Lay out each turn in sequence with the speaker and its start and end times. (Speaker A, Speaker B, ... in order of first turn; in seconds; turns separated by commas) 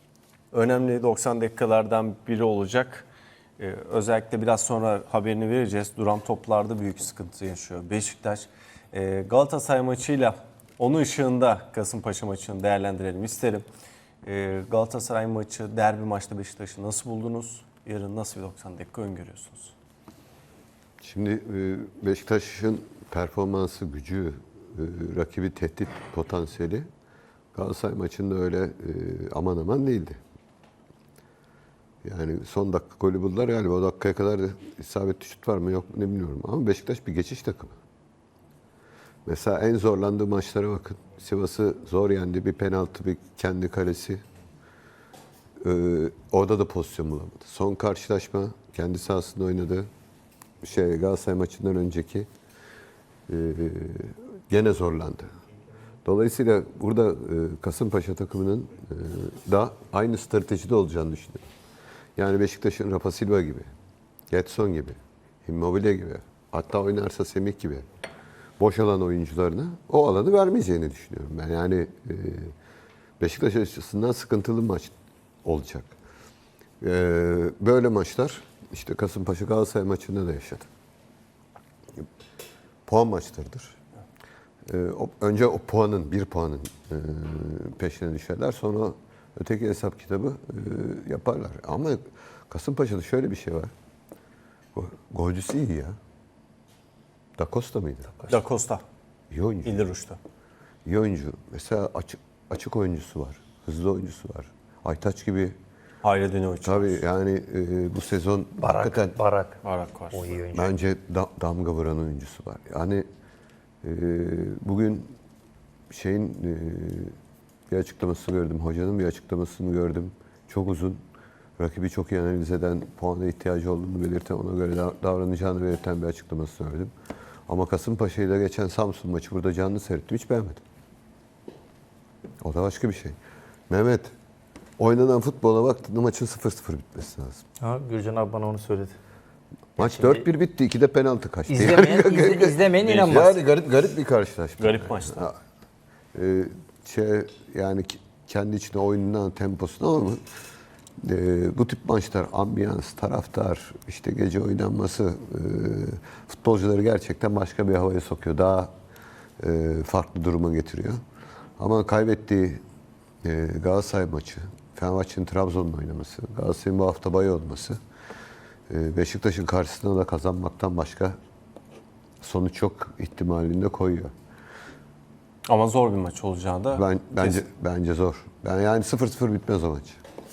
Speaker A: 0.5-3.1, Speaker A: 3.6-13.6, Speaker A: 14.2-19.7, Speaker B: 21.0-26.9, Speaker B: 27.5-30.2, Speaker B: 32.0-37.8, Speaker B: 39.2-44.2, Speaker B: 45.6-49.9, Speaker B: 50.6-52.3, Speaker B: 53.3-55.3, Speaker B: 56.0-61.4, Speaker B: 62.1-63.7, Speaker B: 64.3-67.8, Speaker B: 68.6-72.5, Speaker B: 73.2-75.9, Speaker B: 76.8-80.7, Speaker B: 82.8-83.8, Speaker B: 84.7-93.7, Speaker B: 94.7-95.9, Speaker B: 97.4-98.2, Speaker A: 98.3-98.8, Speaker B: 99.3-99.8, Speaker A: 99.6-100.2, Speaker B: 100.8-105.5, Speaker A: 106.0-107.0, Speaker B: 106.6-109.2, Speaker C: 108.6-110.7, Speaker A: 109.6-110.3, Speaker B: 110.5-113.0, Speaker B: 113.8-115.1, Speaker B: 115.9-117.2, Speaker B: 117.7-121.0, Speaker B: 121.6-126.9, Speaker B: 127.5-130.6, Speaker B: 132.4-133.2, Speaker B: 133.7-134.1, Speaker B: 134.8-137.4, Speaker C: 137.6-138.9, Speaker B: 139.8-145.4, Speaker C: 139.8-140.3, Speaker C: 141.5-143.5, Speaker A: 144.6-145.2, Speaker B: 146.1-150.2, Speaker B: 151.0-158.7, Speaker B: 159.4-161.0, Speaker B: 161.6-162.6, Speaker B: 163.2-167.8, Speaker B: 168.7-171.1, Speaker B: 172.2-174.1, Speaker A: 175.5-177.4, Speaker B: 176.7-180.0